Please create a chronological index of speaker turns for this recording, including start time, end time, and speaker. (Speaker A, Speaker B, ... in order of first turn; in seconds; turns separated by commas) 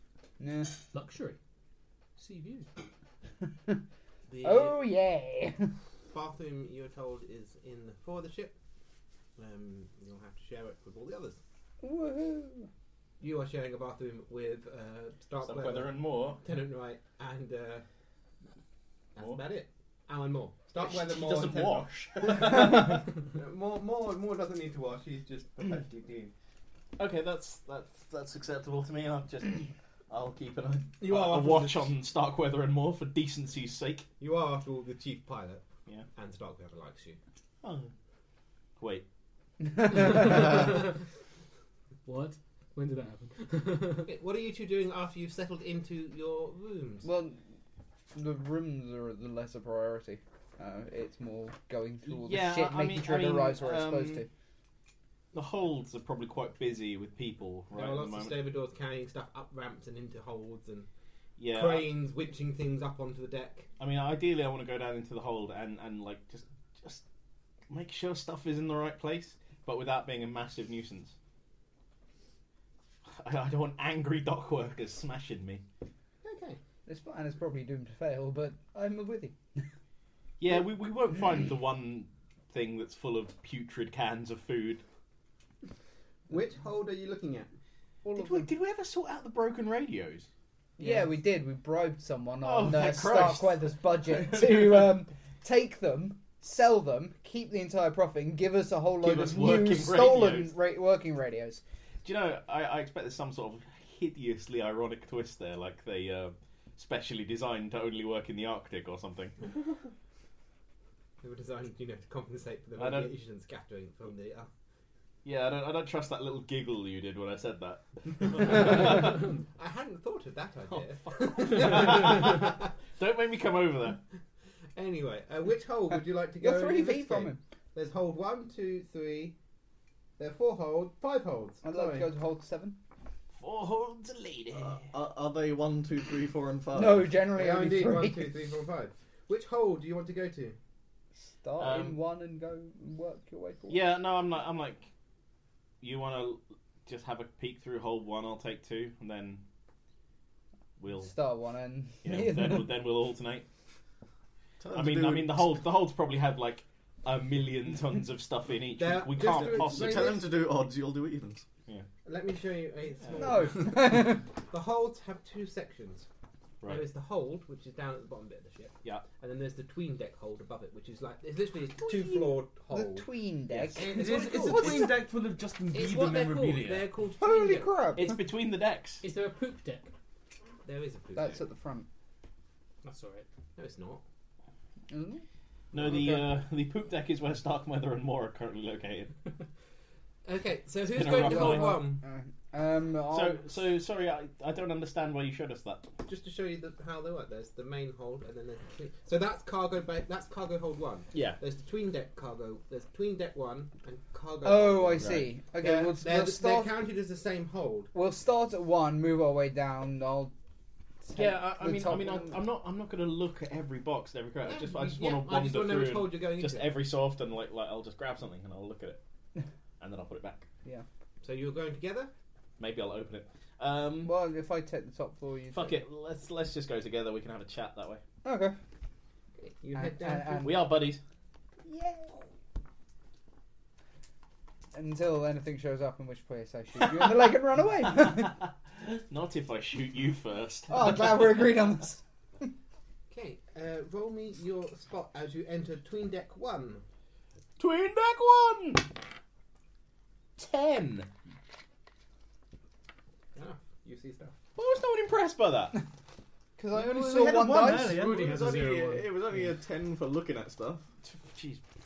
Speaker A: 0.4-0.8, Speaker B: 0.9-1.4, Speaker B: 2.1-2.9, Speaker C: 4.3-4.8, Speaker A: 4.4-5.7, Speaker C: 6.1-8.6, Speaker C: 9.4-11.4, Speaker A: 11.8-12.7, Speaker C: 13.2-17.8, Speaker D: 15.4-16.4, Speaker C: 19.1-26.3, Speaker D: 19.2-19.4, Speaker D: 20.8-23.1, Speaker D: 27.0-34.1, Speaker C: 31.0-31.9, Speaker C: 34.2-37.2, Speaker D: 37.6-37.9, Speaker D: 38.8-39.0, Speaker B: 39.9-41.0, Speaker B: 42.0-44.1, Speaker C: 44.0-47.1, Speaker A: 47.0-47.4, Speaker A: 48.1-54.3, Speaker D: 52.0-54.2, Speaker D: 55.3-58.4, Speaker C: 57.7-60.9, Speaker D: 61.4-61.9, Speaker C: 61.5-63.7, Speaker D: 63.8-67.0, Speaker D: 67.7-71.1, Speaker D: 73.2-75.6, Speaker C: 76.2-76.6, Speaker A: 76.8-79.7, Speaker D: 80.4-84.8, Speaker C: 86.3-87.5, Speaker A: 88.0-88.5, Speaker D: 88.1-90.3, Speaker C: 90.8-91.1, Speaker A: 90.8-101.6, Speaker D: 92.4-94.7, Speaker D: 99.0-100.5, Speaker D: 102.0-109.4, Speaker C: 111.2-114.5, Speaker D: 112.8-113.1, Speaker D: 115.2-119.4, Speaker C: 118.5-122.7, Speaker D: 120.7-124.0, Speaker C: 124.8-129.4, Speaker A: 126.4-127.4, Speaker C: 130.2-132.1, Speaker A: 131.6-132.8, Speaker D: 133.3-134.9, Speaker E: 134.6-137.0, Speaker A: 136.7-138.3, Speaker C: 137.3-140.6, Speaker A: 141.3-143.8, Speaker D: 141.6-142.0, Speaker D: 143.7-144.9, Speaker D: 145.8-149.4, Speaker D: 150.8-151.1, Speaker A: 151.0-152.8, Speaker D: 152.0-153.4, Speaker E: 154.6-155.6, Speaker D: 154.7-160.1, Speaker C: 158.7-160.3, Speaker E: 159.4-161.5, Speaker C: 162.0-166.1, Speaker D: 163.0-163.3, Speaker A: 163.2-164.2, Speaker C: 166.6-173.1, Speaker A: 171.8-175.0, Speaker C: 173.7-174.9, Speaker F: 173.8-176.9, Speaker C: 175.7-177.8, Speaker A: 177.2-178.2, Speaker D: 177.9-179.0, Speaker B: 179.0-179.9, Speaker C: 180.6-181.4, Speaker A: 181.1-181.9, Speaker B: 182.8-183.3, Speaker C: 183.6-184.0, Speaker A: 184.9-185.2, Speaker D: 185.7-189.1, Speaker A: 185.7-186.3, Speaker C: 190.2-192.0, Speaker D: 190.9-191.8, Speaker A: 191.1-193.6, Speaker D: 193.1-195.9, Speaker C: 196.0-207.9, Speaker D: 201.1-201.4, Speaker A: 204.4-206.8, Speaker D: 205.0-205.2, Speaker A: 207.9-210.3, Speaker A: 211.0-212.4, Speaker D: 211.2-219.0, Speaker C: 214.4-216.7, Speaker D: 219.8-220.5, Speaker C: 221.2-222.1, Speaker D: 222.6-224.2, Speaker A: 224.0-225.8, Speaker D: 225.5-228.0, Speaker A: 228.2-228.6, Speaker C: 229.4-230.5, Speaker A: 229.7-230.7, Speaker D: 230.4-231.0, Speaker A: 231.6-232.2, Speaker A: 234.7-238.4, Speaker D: 236.8-241.4, Speaker A: 240.7-242.5, Speaker C: 243.1-246.8, Speaker D: 247.6-248.9, Speaker D: 250.4-251.1, Speaker C: 253.3-254.3, Speaker D: 254.6-255.8, Speaker A: 256.6-258.0, Speaker F: 256.8-258.2, Speaker D: 257.2-259.7, Speaker B: 257.8-259.1, Speaker E: 258.5-260.9, Speaker D: 261.0-261.6